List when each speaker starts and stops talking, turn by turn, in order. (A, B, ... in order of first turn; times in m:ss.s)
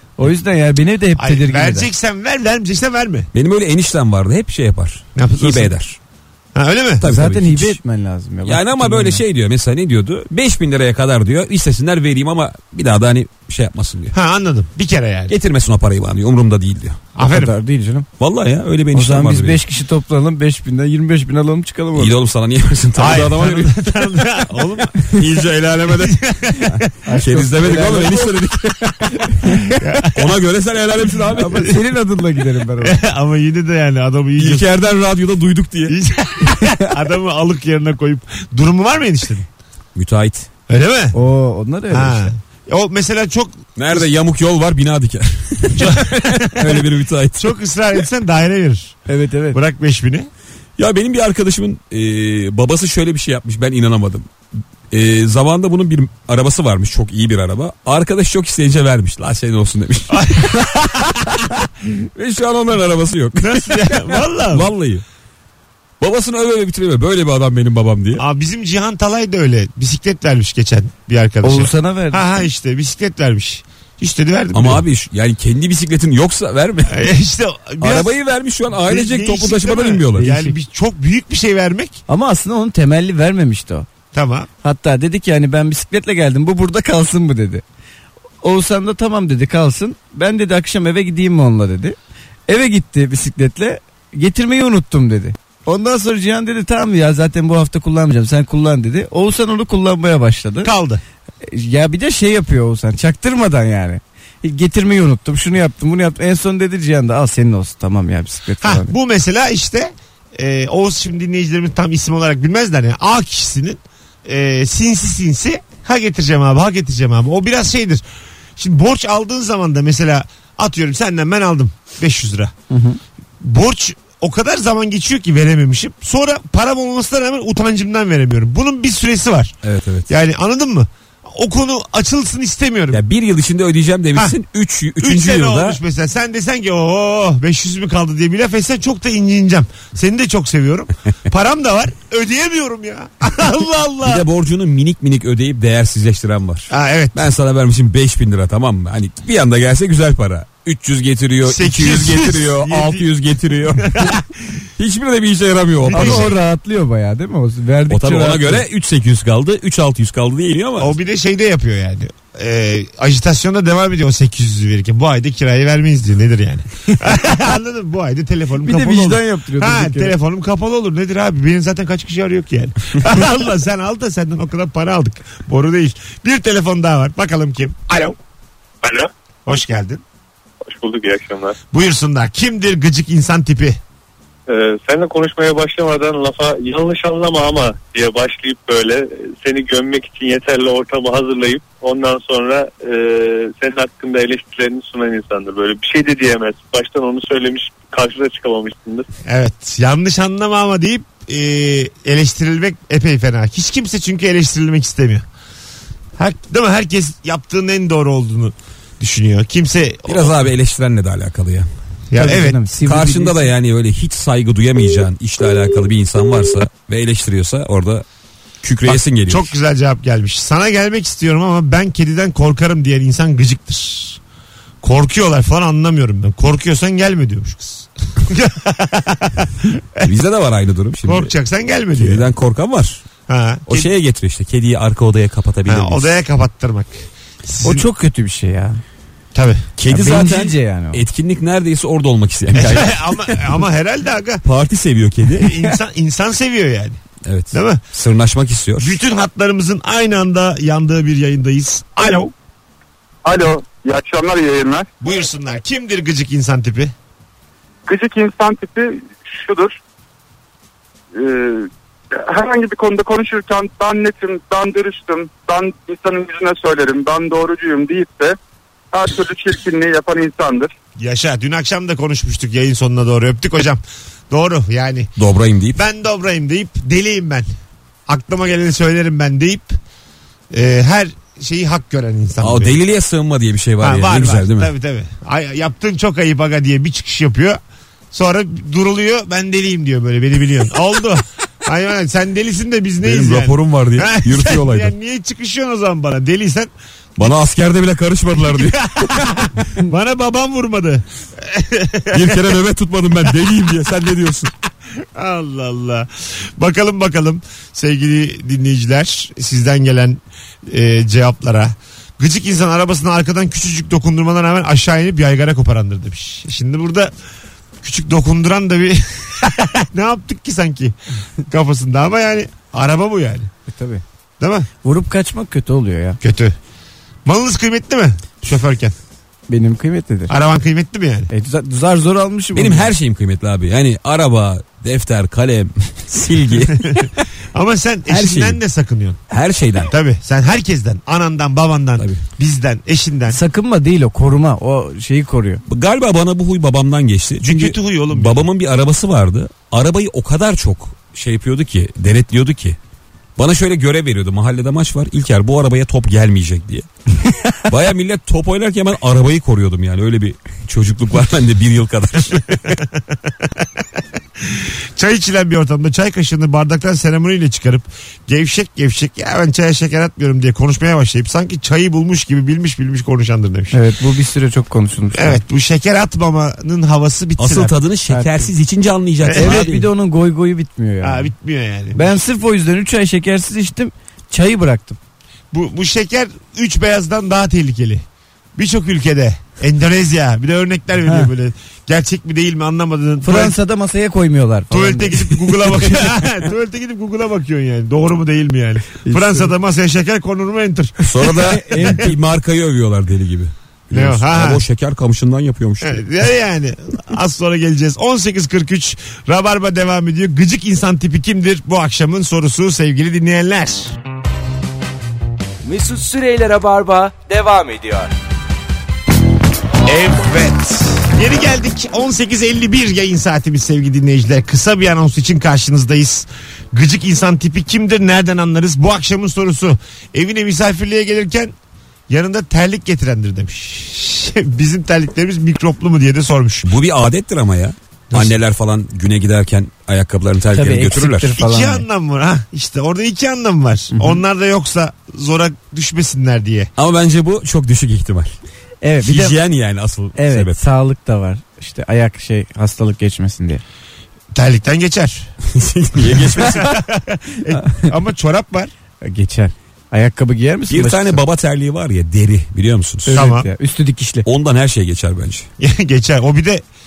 0:00.2-0:01.9 A
0:01.2-0:03.3 B
0:03.3-0:06.0 C
0:05.2-0:05.7 B
0:06.6-0:07.0 B
0:07.0-0:07.8 C
0:07.0-0:09.2 A
0:08.4-0:14.2 C
0:14.1-0:15.3 B
0:15.3-0:17.0 C
0:17.2-0:17.6 B
0:17.2-0:18.1 A
0:18.2-0:19.6 C
0:18.9-0:22.1 A
0:22.0-0:24.2 C
0:23.0-0:25.2 B
0:25.0-0:26.2 C
0:25.9-0:26.9 B
0:27.0-0:29.8 A
0:27.2-0:29.1 C
0:29.7-0:30.3 B
0:30.1-0:31.8 C
0:31.3-0:33.0 A
0:32.8-0:34.7 B
0:34.4-0:36.0 C
0:35.9-0:39.5 B
0:40.0-0:40.5 C
0:40.7-0:41.2 B
0:41.1-0:42.3 A
0:41.9-0:44.1 B
0:43.8-0:47.6 C
0:45.8-0:49.0 B
0:49.1-0:49.6 A
0:49.5-0:50.3 B
0:50.8-0:54.3 C
0:54.9-1:01.5 C
1:00.1-1:01.2 B
1:02.2-1:05.0 C
1:03.4-1:04.7 B
1:06.0-1:08.2 C
1:08.2-1:14.8 B
1:11.4-1:12.4 A
1:14.5-1:17.1 C
1:16.9-1:18.1 B
1:17.8-1:20.3 C
1:18.7-1:22.0 B
1:20.2-1:20.5 A
1:22.1-1:23.9 A
1:24.1-1:24.5 B
1:24.6-1:27.6 A
1:28.4-1:32.0 A
1:32.5-1:40.7 A
1:40.6-1:41.0 B
1:41.4-1:48.9 A
1:48.6-1:58.0 B
1:58.6-2:02.5 B
2:02.7-2:03.0 A
2:03.4-2:09.6 B
2:09.6-2:10.1 C
2:10.1-2:13.0 B
2:12.9-2:15.8 C
2:15.0-2:24.3 B
2:24.0-2:34.2 C
2:26.7-2:27.2 B
2:31.4-2:33.1 B
2:33.8-2:34.3 B
2:34.8-2:36.3 C
2:35.9-2:36.4 B
2:35.9-2:38.6 A
2:37.9-2:41.0 C
2:40.8-2:58.2 B
2:48.6-2:50.2 A
2:58.8-2:59.1 D
2:59.5-3:00.0 B
3:00.6-3:01.6 D
3:01.7-3:03.8 B
3:04.5-3:19.1 D
3:19.3-3:25.2 B
3:26.2-3:30.3 B
3:30.1-3:31.7 C
3:32.1-3:32.6 B
3:32.2-3:33.5 A
3:32.8-3:38.0 C
3:38.6-3:39.5 C
3:38.9-3:44.2 B
3:44.8-3:50.1 B
3:50.0-3:51.3 C
3:51.1-3:52.3 B
3:52.0-3:53.0 C
3:53.3-3:53.9 B
3:53.7-3:56.1 C
3:55.7-3:57.8 B
3:57.6-3:58.8 A
3:59.3-3:59.7 B
3:59.8-4:03.3 C
3:59.9-4:01.0 A
4:02.6-4:04.4 B
4:04.4-4:05.6 C
4:05.4-4:07.0 B
4:07.2-4:09.0 C
4:07.5-4:07.8 B
4:08.8-4:12.3 B
4:13.2-4:14.9 E
4:15.0-4:16.9 B
4:17.9-4:19.8 E
4:21.1-4:28.4 E
4:28.9-4:30.7 E
4:31.0-4:35.1 B
4:35.2-4:35.8 C
4:35.7-4:37.5 B
4:38.1-4:39.8 B
4:40.5-4:42.8 B
4:42.4-4:44.7 C
4:43.8-4:47.6 B
4:48.1-4:56.7 B
4:53.0-4:54.9 C
4:57.2-4:59.3 C
4:58.4-5:02.6 B
5:02.1-5:04.5 C
5:05.2-5:17.1 B
5:17.8-5:21.0 B
5:21.5-5:23.5 B
5:23.7-5:24.0 A
5:24.4-5:24.7 B
5:24.8-5:26.2 A
5:26.2-5:26.6 B
5:27.2-5:29.0 B
5:29.5-5:30.3 A
5:30.3-5:31.3 B
5:31.3-5:32.9 A
5:32.5-5:37.1 C
5:36.8-5:39.2 B
5:38.1-5:38.6 C
5:39.3-5:39.9 C
5:39.8-5:43.4 B
5:42.0-5:42.2 C
5:43.3-5:45.6 A
5:45.7-5:52.8 C
5:47.4-5:48.5 B
5:53.4-6:02.8 C
6:02.7-6:03.6 B
6:04.4-6:13.8 B
6:13.7-6:15.4 A
6:15.1-6:17.7 B
6:17.4-6:19.9 C
6:18.1-6:18.5 A
6:19.2-6:19.7 B
6:19.4-6:21.3 A
6:21.0-6:22.2 B
6:21.9-6:25.0 A
6:25.5-6:28.0 B
6:28.6-6:33.6 B
6:33.2-6:36.2 A
6:34.7-6:42.1 B
6:39.0-6:39.5 A
6:41.1-6:46.0 C
6:41.2-6:42.2 A
6:43.9-6:44.6 B
6:45.8-6:54.0 B
6:55.6-6:58.1 F
6:59.8-7:11.5 B
7:12.1-7:16.7 B
7:16.6-7:21.4 C
7:20.5-7:21.8 A
7:21.4-7:26.7 B
7:23.9-7:24.2 A
7:26.8-7:28.4 C
7:28.8-7:29.4 A
7:29.0-7:30.6 C
7:30.2-7:33.6 A
7:34.3-7:35.3 B
7:35.5-7:36.8 C
7:36.2-7:38.7 B
7:39.0-7:41.2 A
7:40.7-7:43.2 C
7:43.1-7:44.3 A
7:43.1-7:43.5 B
7:44.2-7:45.5 C
7:45.6-7:46.6 B